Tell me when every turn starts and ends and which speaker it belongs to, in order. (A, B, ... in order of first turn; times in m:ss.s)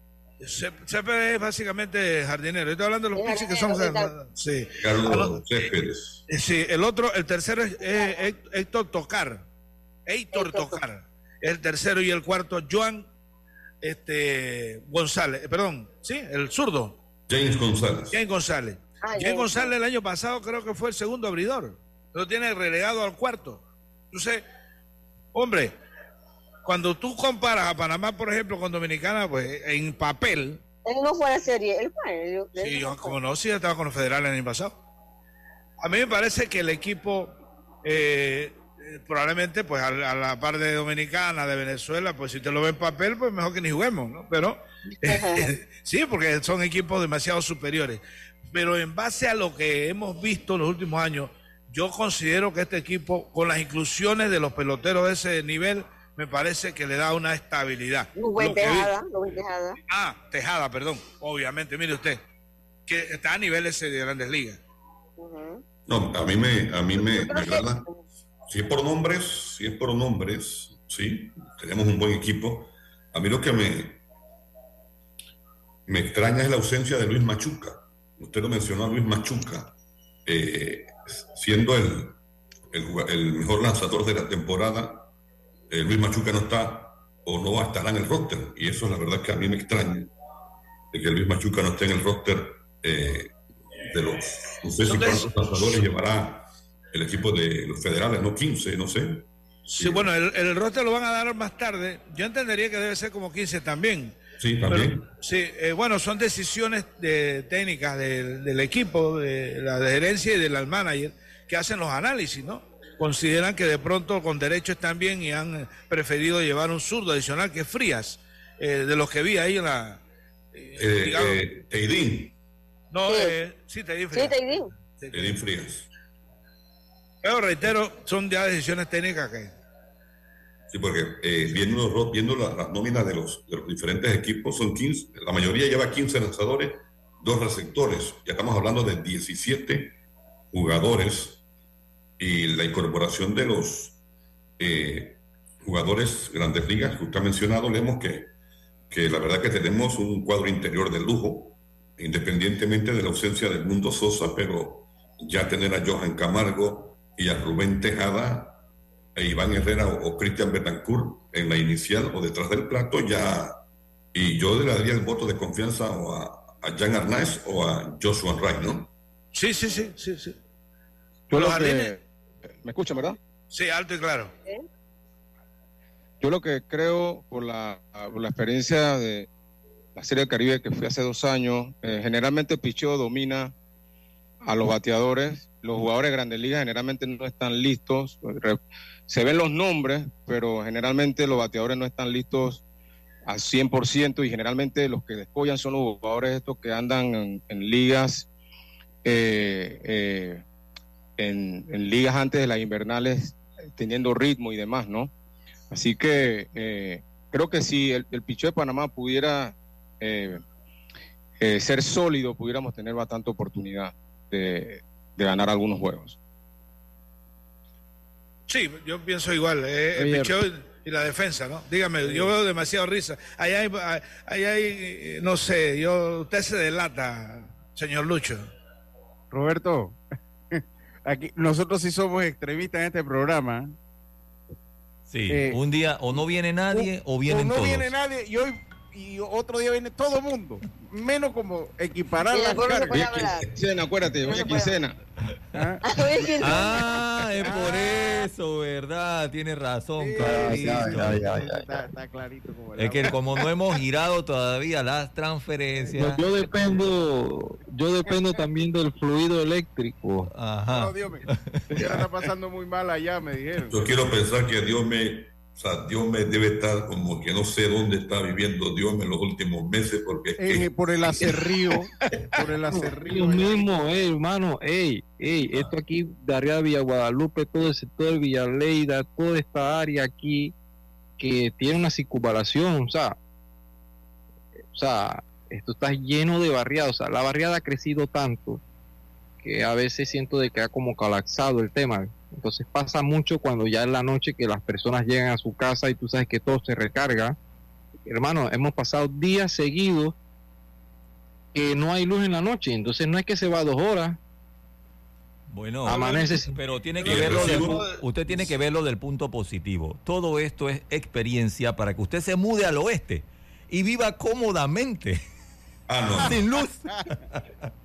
0:00.4-0:05.7 A
0:03.2-0:04.1 B
0:04.8-0:06.2 C
0:06.3-0:09.4 A
0:10.1-0:13.1 A
0:10.3-0:10.8 B
0:13.8-0:17.0 A
0:17.3-0:18.2 C
0:18.1-0:24.4 A
0:19.0-0:19.7 B
0:25.3-0:25.7 A
0:26.6-0:30.6 A
0:30.8-0:33.2 B
0:32.6-0:34.8 A
0:35.8-0:37.3 A
0:37.8-0:48.0 A
0:45.0-0:45.4 B
0:48.5-1:02.2 A
0:58.2-0:59.8 B
1:02.9-1:04.6 A
1:05.2-1:05.6 B
1:05.8-1:07.9 C
1:06.9-1:08.0 B
1:08.5-1:14.0 C
1:15.9-1:19.7 C
1:20.2-1:22.2 C
1:22.7-1:25.1 C
1:25.7-1:30.1 C
1:30.9-1:33.3 C
1:33.8-1:39.3 C
1:34.8-1:35.8 A
1:39.7-2:00.0 A
1:39.8-1:40.1 C
1:44.4-1:45.1 C
2:00.5-2:01.4 A
2:00.8-2:02.3 C
2:02.9-2:05.4 A
2:04.1-2:04.7 B
2:05.1-2:05.9 C
2:07.2-2:09.5 A
2:10.7-2:20.0 C
2:20.5-2:21.4 C
2:22.2-2:24.0 C
2:24.6-2:28.3 C
2:28.9-2:38.6 C
2:39.1-2:43.6 C
2:44.1-2:48.9 C
2:49.3-2:50.4 A
2:51.3-2:52.0 A
2:51.3-2:51.9 D
2:52.6-2:53.2 D
2:53.5-2:54.3 A
2:56.2-2:59.3 D
3:00.0-3:03.5 D
3:04.4-3:12.6 D
3:13.3-3:18.3 D
3:19.0-3:20.4 D
3:21.2-3:25.1 D
3:25.7-3:30.4 D
3:31.4-3:36.2 D
3:38.5-3:48.5 A
3:39.9-3:40.4 E
3:42.0-3:42.3 E
3:49.3-3:50.0 E
3:50.5-3:53.7 E
3:55.1-3:57.9 F
3:55.3-3:55.6 E
3:56.1-4:03.1 E
4:02.3-4:03.5 B
4:02.9-4:05.0 D
4:03.4-4:03.7 C
4:04.2-4:04.8 B
4:05.5-4:06.7 E
4:05.9-4:06.8 B
4:06.4-4:11.2 F
4:07.4-4:07.9 E
4:10.0-4:13.5 E
4:10.2-4:11.7 G
4:12.8-4:16.2 F
4:15.9-4:20.3 G
4:20.3-4:21.9 F
4:20.7-4:23.8 E
4:23.6-4:31.3 C
4:30.4-4:33.6 E
4:33.0-4:40.5 G
4:41.2-4:43.2 G
4:44.7-4:48.6 G
4:49.4-4:57.4 G
4:58.0-5:00.1 G
5:01.5-5:04.2 G
5:05.5-5:15.2 F
5:05.8-5:06.6 G
5:07.0-5:08.0 A
5:07.0-5:07.9 C
5:15.9-5:16.4 C
5:16.2-5:17.4 F